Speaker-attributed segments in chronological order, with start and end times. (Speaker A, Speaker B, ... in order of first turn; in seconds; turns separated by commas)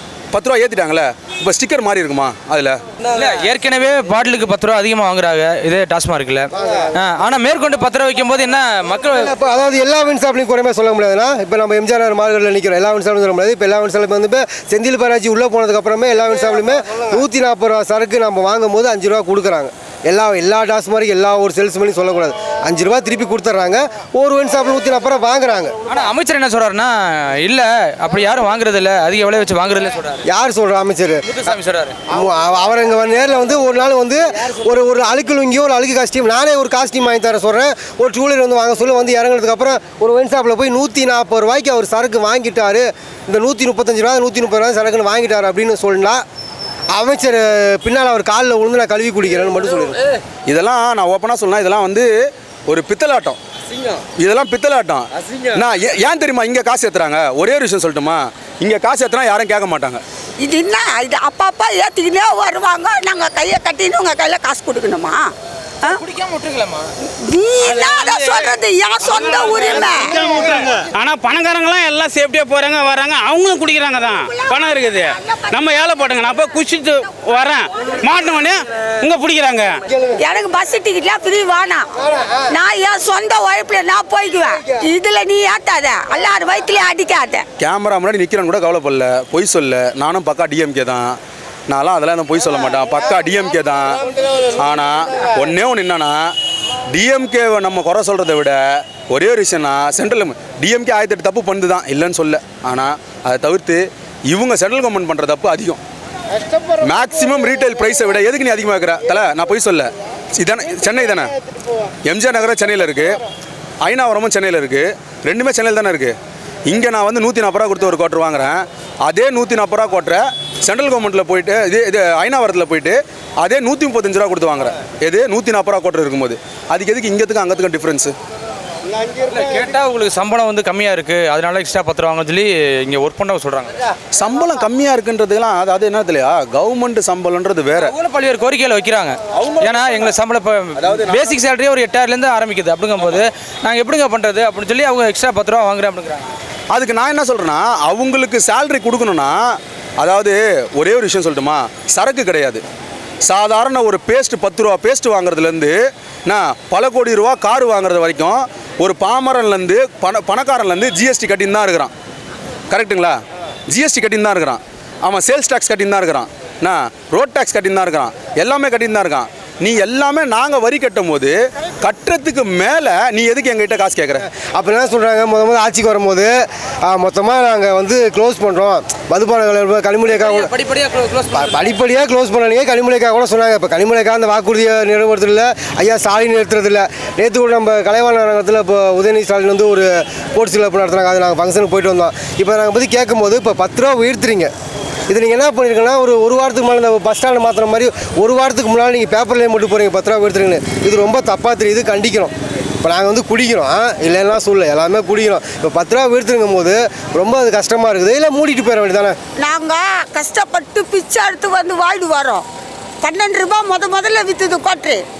Speaker A: 0.3-2.8, Speaker B: 3.0-9.3, Speaker C: 6.6-6.8, Speaker C: 9.1-25.7, Speaker B: 25.9-30.2, Speaker C: 30.2-31.5, Speaker B: 31.3-31.9, Speaker C: 32.1-46.2, Speaker C: 46.9-50.0, Speaker A: 50.5-52.1, Speaker A: 52.7-53.4, Speaker A: 54.2-60.0, Speaker D: 60.4-65.3, Speaker B: 66.1-66.8, Speaker D: 67.2-70.1, Speaker E: 70.2-79.8, Speaker D: 74.3-75.6, Speaker D: 80.2-81.9, Speaker D: 82.5-87.5, Speaker A: 87.6-91.2, Speaker A: 91.7-94.0, Speaker A: 94.6-96.3, Speaker A: 96.9-105.8, Speaker A: 106.8-111.3, Speaker A: 112.0-113.2, Speaker A: 113.8-116.1, Speaker A: 116.7-128.1, Speaker B: 129.2-133.7, Speaker A: 134.1-137.9, Speaker B: 137.7-146.3, Speaker A: 139.3-140.2, Speaker A: 140.7-141.3, Speaker A: 146.7-152.6, Speaker A: 153.2-161.9, Speaker A: 162.7-163.2, Speaker A: 163.7-174.2, Speaker C: 174.3-180.5, Speaker B: 180.1-181.6, Speaker C: 181.4-194.5, Speaker C: 195.1-209.2, Speaker D: 209.4-212.4, Speaker D: 213.0-215.0